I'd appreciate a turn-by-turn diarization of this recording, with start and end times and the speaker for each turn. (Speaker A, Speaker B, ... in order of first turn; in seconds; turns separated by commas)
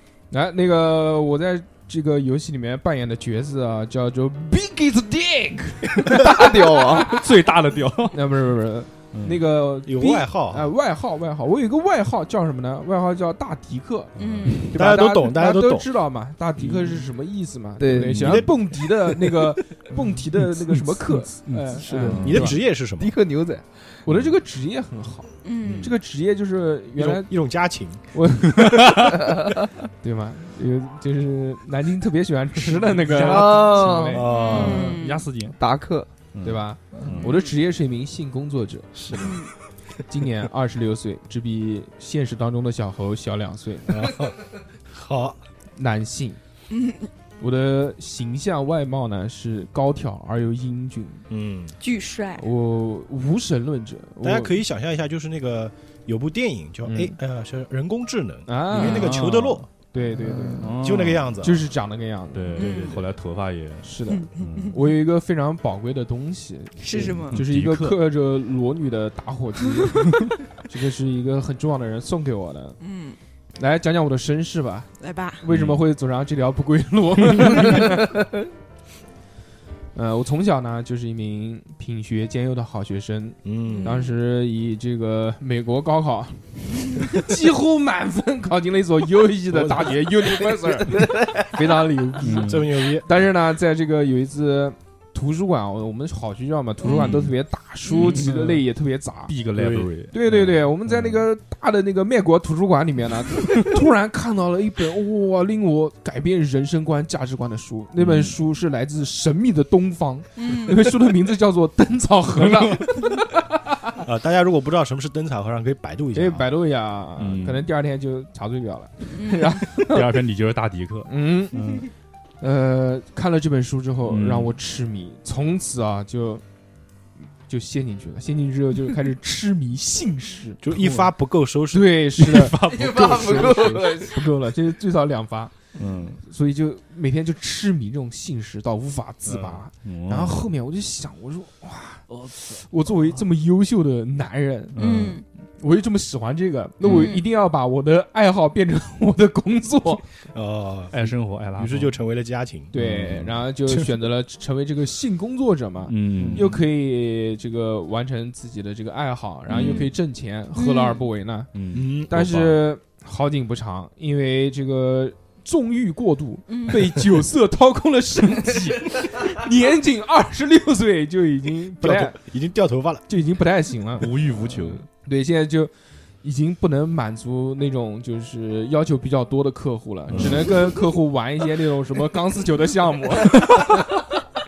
Speaker A: 0.3-7.3, Speaker B: 6.0-7.1, Speaker C: 7.1-8.3, Speaker A: 8.1-22.6, Speaker C: 9.1-9.4, Speaker D: 9.8-10.7, Speaker C: 14.2-14.6, Speaker E: 14.2-14.7, Speaker D: 14.6-15.9, Speaker C: 16.6-17.0, Speaker B: 17.8-18.4, Speaker D: 18.1-19.5, Speaker C: 21.1-22.5, Speaker B: 21.8-23.8, Speaker D: 22.2-23.1, Speaker A: 24.0-27.3, Speaker E: 25.4-25.9, Speaker C: 25.6-25.9, Speaker D: 26.9-28.1, Speaker A: 28.1-29.1, Speaker C: 28.6-29.2, Speaker A: 30.0-34.3, Speaker B: 33.1-34.9, Speaker D: 33.4-35.0, Speaker E: 34.2-35.3, Speaker C: 34.5-35.5, Speaker B: 35.5-36.1, Speaker C: 36.3-37.4, Speaker A: 36.4-38.9, Speaker B: 36.9-37.2, Speaker B: 38.9-39.4, Speaker E: 39.2-39.5, Speaker A: 40.1-44.1, Speaker D: 43.9-44.4, Speaker D: 44.9-45.4, Speaker A: 45.8-46.4, Speaker E: 46.7-47.1, Speaker A: 47.4-51.2, Speaker D: 51.3-51.8, Speaker E: 51.8-52.4, Speaker A: 52.4-54.6, Speaker D: 54.2-59.7, Speaker A: 56.8-57.1, Speaker A: 58.5-59.2, Speaker C: 58.7-59.6, Speaker A: 59.9-60.7, Speaker B: 60.1-60.7, Speaker C: 60.6-61.3, Speaker D: 60.8-61.7, Speaker A: 61.4-62.7, Speaker C: 62.3-64.8, Speaker E: 62.6-62.9, Speaker D: 62.6-63.1, Speaker A: 63.8-72.8, Speaker E: 64.1-64.8, Speaker E: 66.8-67.4, Speaker C: 67.0-68.0, Speaker E: 72.8-73.2, Speaker A: 73.6-78.1, Speaker E: 75.0-75.4, Speaker C: 75.5-75.8, Speaker A: 79.9-99.3, Speaker D: 83.4-84.0, Speaker E: 83.6-84.1, Speaker D: 89.5-90.1, Speaker B: 90.8-91.5, Speaker C: 92.2-92.7, Speaker D: 92.3-93.2, Speaker E: 96.8-97.2, Speaker C: 96.8-97.3, Speaker E: 97.9-98.2, Speaker C: 97.9-98.6, Speaker C: 99.3-101.2, Speaker D: 99.6-99.9, Speaker A: 100.1-114.0, Speaker C: 108.0-108.4, Speaker E: 110.3-110.9, Speaker D: 114.0-116.5, Speaker A: 116.1-120.0, Speaker C: 117.2-117.7, Speaker E: 119.1-119.6, Speaker C: 119.7-121.9, Speaker A: 121.1-121.6, Speaker A: 122.4-126.4, Speaker C: 124.1-124.5, Speaker A: 127.5-131.1, Speaker D: 130.6-132.5, Speaker A: 131.7-135.5, Speaker C: 132.2-133.9, Speaker B: 132.6-134.2, Speaker C: 135.8-136.2, Speaker A: 136.2-144.8, Speaker D: 139.2-139.6, Speaker C: 139.8-140.4, Speaker C: 142.1-142.6, Speaker C: 144.7-145.2, Speaker E: 144.8-145.2, Speaker A: 145.6-150.0, Speaker C: 146.8-147.1, Speaker E: 146.9-147.2, Speaker D: 150.3-152.7, Speaker C: 150.9-151.9, Speaker A: 152.7-161.5, Speaker C: 152.8-153.4, Speaker C: 155.9-156.6, Speaker B: 156.2-156.4, Speaker C: 159.5-159.9, Speaker D: 159.5-159.8, Speaker E: 160.5-161.1, Speaker C: 161.5-162.6, Speaker D: 161.7-162.2, Speaker A: 162.1-172.2, Speaker E: 166.5-166.9, Speaker D: 171.8-173.1, Speaker A: 173.1-174.1, Speaker C: 174.0-174.8, Speaker A: 174.9-175.7, Speaker A: 176.2-183.8, Speaker D: 180.1-180.4, Speaker C: 180.1-180.5